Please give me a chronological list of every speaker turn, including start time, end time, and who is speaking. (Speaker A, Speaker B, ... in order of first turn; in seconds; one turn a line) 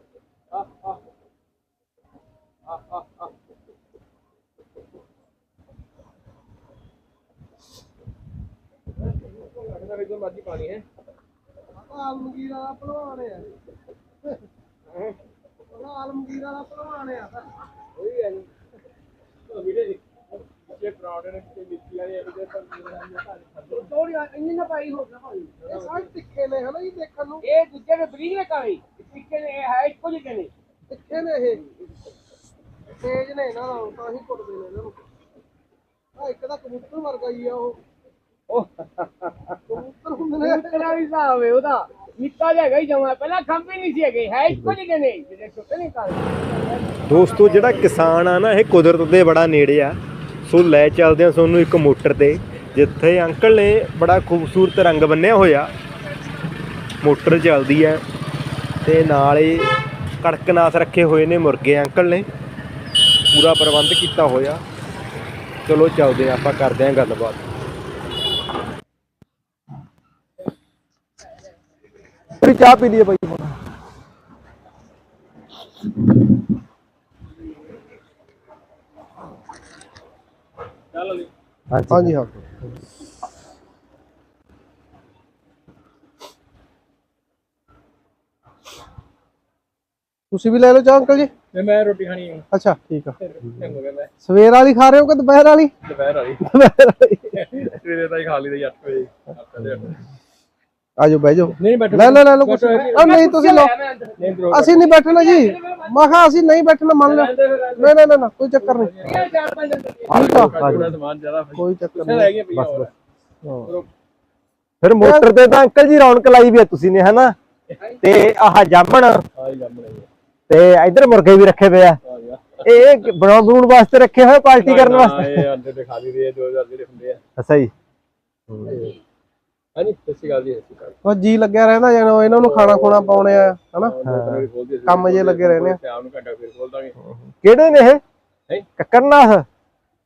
Speaker A: 0.5-1.0
Speaker A: 2.7-3.3
Speaker A: 9.2-10.8
Speaker B: 11.8-13.6
Speaker B: 15.7-17.5
Speaker C: 18.0-18.5
Speaker A: 19.5-23.9
Speaker C: 23.7-25.6
Speaker A: 25.6-26.1
Speaker B: 25.7-27.4
Speaker C: 27.4-30.5
Speaker B: 30.9-31.6
Speaker B: 33.0-35.0
Speaker B: 36.2-37.8
Speaker C: 38.5-39.8
Speaker B: 39.7-41.0
Speaker C: 40.4-48.0
Speaker D: 44.5-44.8
Speaker D: 47.1-55.7
Speaker D: 57.0-58.0
Speaker D: 58.8-62.3
Speaker D: 63.3-64.6
Speaker D: 65.7-67.4
Speaker D: 72.4-73.6
Speaker A: 80.9-81.3
Speaker D: 81.7-82.5
Speaker B: 81.9-82.3
Speaker B: 90.3-91.3
Speaker A: 91.5-92.5
Speaker B: 92.5-93.2
Speaker A: 93.2-94.1
Speaker B: 94.2-95.7
Speaker A: 95.8-96.5
Speaker B: 96.5-97.4
Speaker A: 97.3-100.0
Speaker B: 101.0-103.7
Speaker A: 101.6-103.3
Speaker C: 102.7-106.2
Speaker A: 104.2-104.9
Speaker B: 104.5-109.1
Speaker A: 107.0-109.4
Speaker C: 109.0-110.3
Speaker B: 110.1-111.0
Speaker A: 110.1-112.9
Speaker D: 110.3-110.9
Speaker B: 111.6-112.3
Speaker D: 112.5-112.9
Speaker B: 113.4-113.7
Speaker D: 114.8-117.3
Speaker B: 115.0-115.3
Speaker D: 118.0-119.2
Speaker A: 119.3-120.1
Speaker D: 120.5-122.0
Speaker A: 122.0-123.0
Speaker D: 122.7-125.5
Speaker A: 124.6-127.2
Speaker D: 127.4-127.7
Speaker D: 128.5-128.9
Speaker A: 128.7-128.9
Speaker A: 129.8-131.0
Speaker B: 131.0-133.9
Speaker A: 132.3-136.9
Speaker D: 134.1-134.5
Speaker B: 134.8-135.8
Speaker D: 137.0-138.0
Speaker D: 138.8-139.5